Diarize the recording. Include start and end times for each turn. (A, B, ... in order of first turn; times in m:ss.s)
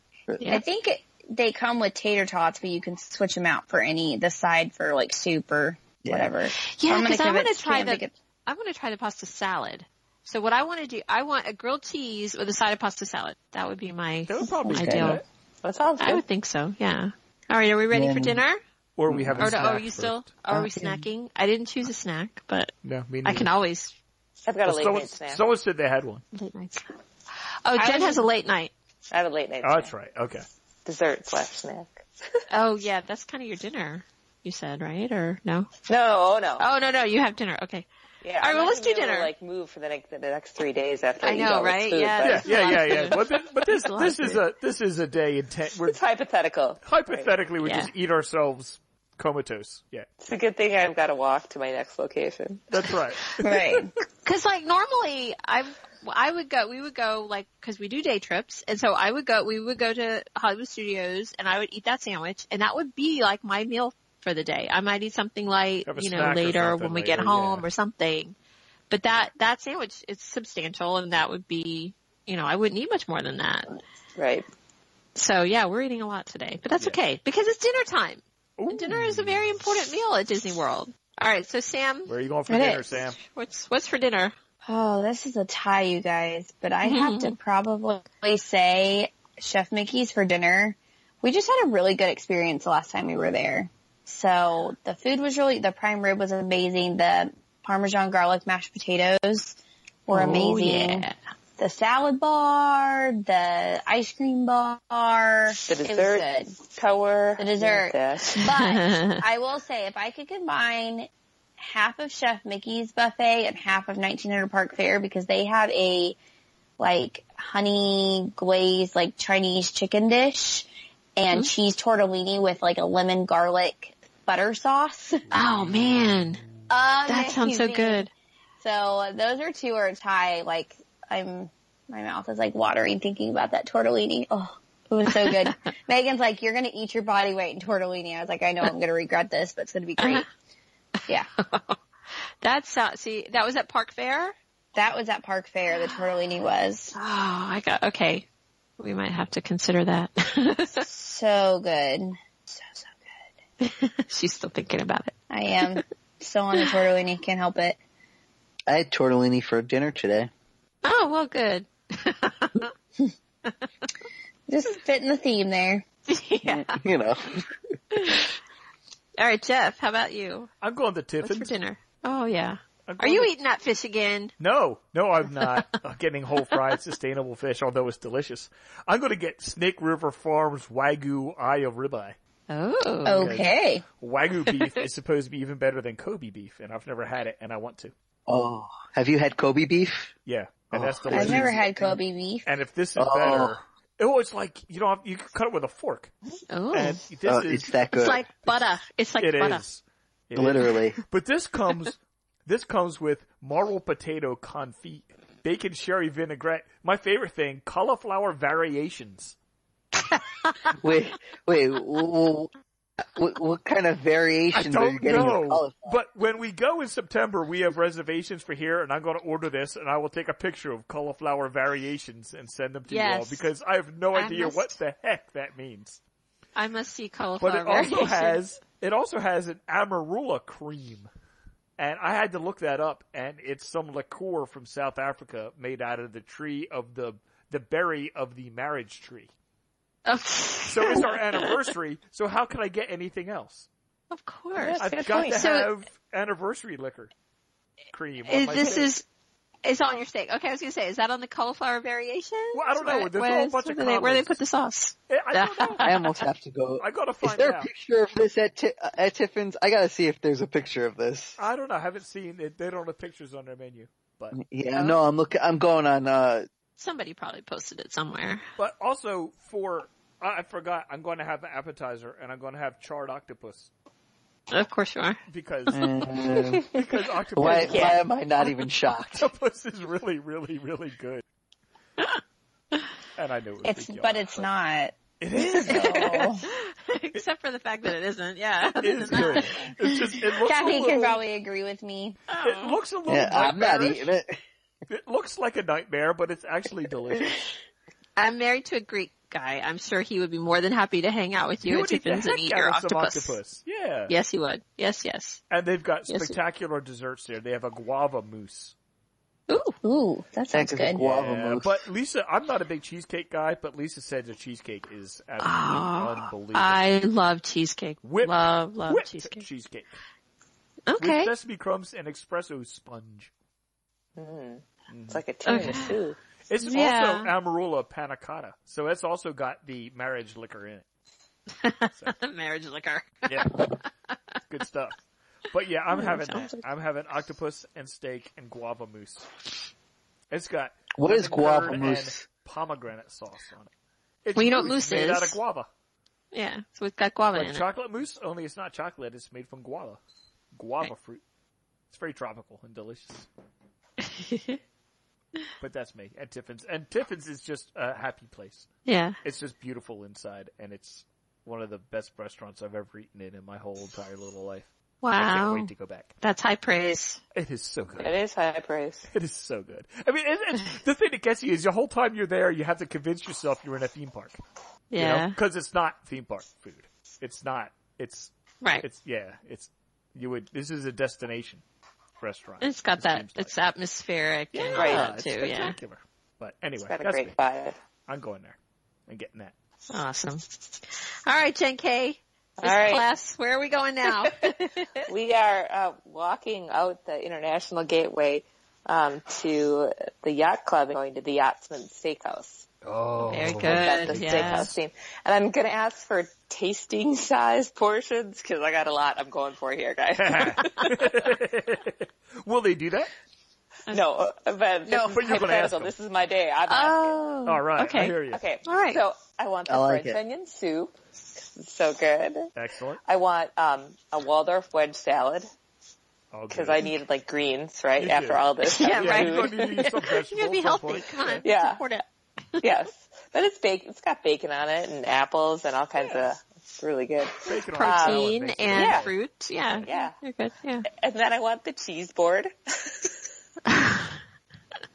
0:00.5-0:08.1 A
0:06.0-0:06.4 B
0:06.6-0:15.2 C
0:14.3-0:15.2 D
0:14.7-0:15.1 A
0:14.8-0:15.1 B
0:15.6-0:16.2 E
0:16.0-0:18.6 C
0:17.9-0:18.4 B
0:19.0-0:20.4 D
0:19.1-0:19.8 B
0:19.4-0:22.7 C
0:20.5-0:21.0 B
0:22.8-0:23.5 D
0:23.2-0:23.9 C
0:24.4-0:25.4 E
0:24.6-0:26.2 D
0:26.3-0:27.0 C
0:27.6-0:28.7 C
0:27.8-0:28.2 A
0:29.1-0:29.9 E
0:29.6-0:30.4 D
0:30.8-0:32.4 E
0:32.5-0:35.7 C
0:35.9-0:36.6 E
0:36.6-0:37.9 C
0:38.2-0:42.9 E
0:38.4-0:39.3 C
0:41.2-0:44.4 C
0:42.2-0:46.0 D
0:45.8-0:47.3 E
0:46.8-0:50.1 D
0:47.6-0:47.9 C
0:50.2-0:52.9 E
0:52.7-0:53.8 D
0:53.4-0:53.9 A
0:54.2-1:08.3 C
1:05.8-1:07.7 D
1:08.9-1:13.8 C
1:14.2-1:14.5 E
1:15.1-1:22.1 C
1:18.6-1:19.4 D
1:22.1-1:23.2 D
1:22.5-1:22.9 A
1:23.1-1:24.3 C
1:24.6-1:41.0 A
1:26.8-1:27.4 C
1:40.1-1:41.2 C
1:41.6-1:46.5 A
1:45.6-1:48.4 E
1:47.4-1:56.2 A
1:48.3-1:49.2 C
1:56.8-2:05.3 A
2:05.3-2:06.4 C
2:05.6-2:06.2 D
2:06.7-2:08.0 A
2:07.0-2:08.1 C
2:08.6-2:20.3 A
2:15.2-2:15.5 C
2:20.0-2:20.2 C
2:21.4-2:21.8 C
2:22.4-2:24.3 C
2:24.7-2:26.9 A
2:26.9-2:28.2 C
2:28.8-2:30.8 C
2:30.8-2:33.2 A
2:33.6-2:35.1 C
2:35.3-2:37.8 A
2:38.7-2:40.3 B
2:40.8-2:42.7 C
2:44.5-2:45.8 A
2:46.1-2:46.8 C
2:46.5-2:47.4 B
2:47.9-2:48.2 C
2:49.2-2:50.5 C
2:50.6-2:51.6 D
2:51.2-2:54.3 C
2:52.8-2:53.3 D
2:54.4-3:02.2 D
2:55.2-2:55.7 C
2:56.5-2:56.7 C
3:02.5-3:03.4 C
3:03.0-3:03.8 A
3:03.1-3:07.9 D
3:04.4-3:04.7 C
3:08.3-3:10.1 B
3:10.2-3:11.9 D
3:10.7-3:11.9 B
3:11.1-3:12.4 A
3:12.4-3:16.1 D
3:13.0-3:13.6 B
3:16.5-3:17.0 C
3:16.7-3:18.6 D
3:17.2-3:18.2 B
3:17.9-3:19.6 C
3:19.2-3:29.3 D
3:20.3-3:21.0 B
3:30.1-3:30.7 C
3:30.8-3:32.5 B
3:33.1-3:36.0 B
3:34.5-3:46.0 D
3:42.9-3:43.5 C
3:44.1-3:44.8 C
3:46.6-3:48.4 C
3:47.4-3:51.1 D
3:51.8-3:59.3 D
4:00.1-4:01.6 C
4:00.7-4:03.7 D
4:04.1-4:05.7 C
4:04.6-4:05.5 E
4:04.8-4:07.1 D
4:07.9-4:08.9 D
4:08.2-4:09.0 C
4:09.6-4:16.1 C
4:12.5-4:14.4 D
4:15.1-4:15.8 D
4:15.8-4:21.4 B
4:16.8-4:17.7 D
4:21.4-4:24.4 D
4:24.3-4:26.5 B
4:26.8-4:28.4 C
4:28.6-4:33.7 D
4:34.5-4:35.2 C
4:35.3-4:35.8 D
4:35.7-4:36.8 B
4:36.6-4:38.0 D
4:37.3-4:39.3 B
4:37.5-4:38.0 E
4:39.2-4:41.2 D
4:43.2-4:44.5 D
4:43.6-4:46.4 A
4:45.2-4:46.3 D
4:45.7-4:49.6 C
4:48.8-4:51.2 D
4:50.3-4:52.2 A
4:52.3-4:52.8 C
4:52.4-4:54.1 D
4:53.1-4:54.4 B
4:54.9-4:57.5 D
4:58.2-5:03.4 C
5:01.6-5:04.1 D
5:04.1-5:05.4 C
5:05.5-5:08.7 D
5:06.1-5:06.4 C
5:09.5-5:09.8 C
5:09.8-5:11.0 A
5:10.5-5:11.9 B
5:11.0-5:16.8 D
5:15.4-5:19.4 C
5:18.0-5:20.0 D
5:20.9-5:21.3 C
5:21.0-5:23.3 D
5:24.2-5:26.2 E
5:24.9-5:25.2 D
5:25.4-5:26.0 C
5:26.5-5:30.8 D
5:26.6-5:27.3 C
5:31.6-5:33.8 C
5:31.9-5:32.2 D
5:33.3-5:33.6 D
5:34.5-5:35.0 D
5:35.5-5:39.3 D
5:35.9-5:36.6 C
5:40.3-5:43.7 D
5:40.9-5:42.3 B
5:44.2-5:45.7 D
5:44.3-5:45.4 C
5:46.3-5:47.6 C
5:47.3-5:50.0 D
5:50.5-5:51.2 D
5:51.9-5:53.3 D
5:54.0-5:54.6 C
5:55.6-5:58.7 D
5:58.8-5:59.2 C
5:59.2-6:06.1 D
6:05.0-6:07.2 C
6:07.3-6:08.1 D
6:08.0-6:09.1 E
6:09.1-6:14.4 D
6:14.9-6:15.4 C
6:15.0-6:21.6 D
6:22.2-6:23.5 D
6:22.6-6:25.8 C
6:24.5-6:27.4 D
6:24.7-6:25.1 E
6:26.8-6:27.8 E
6:28.1-6:29.5 D
6:29.9-6:35.1 C
6:32.6-6:33.0 E
6:34.0-6:34.5 E
6:35.0-6:42.7 E
6:42.9-6:44.7 D
6:43.2-6:44.7 C
6:43.6-6:51.1 E
6:50.2-6:53.1 D
6:53.9-6:57.3 E
6:54.9-6:55.4 C
6:55.0-6:55.9 D
6:56.7-6:59.0 C
6:57.4-6:58.4 D
6:58.3-7:02.5 E
6:59.7-7:00.2 B
7:02.5-7:03.0 D
7:03.0-7:05.5 E
7:06.3-7:06.9 D
7:06.5-7:09.9 E
7:08.0-7:11.4 D
7:08.6-7:12.8 C
7:11.4-7:11.8 E
7:12.6-7:19.1 E
7:17.4-7:19.2 D
7:17.7-7:20.9 C
7:19.8-7:20.2 E
7:20.9-7:23.1 E
7:23.6-7:24.2 C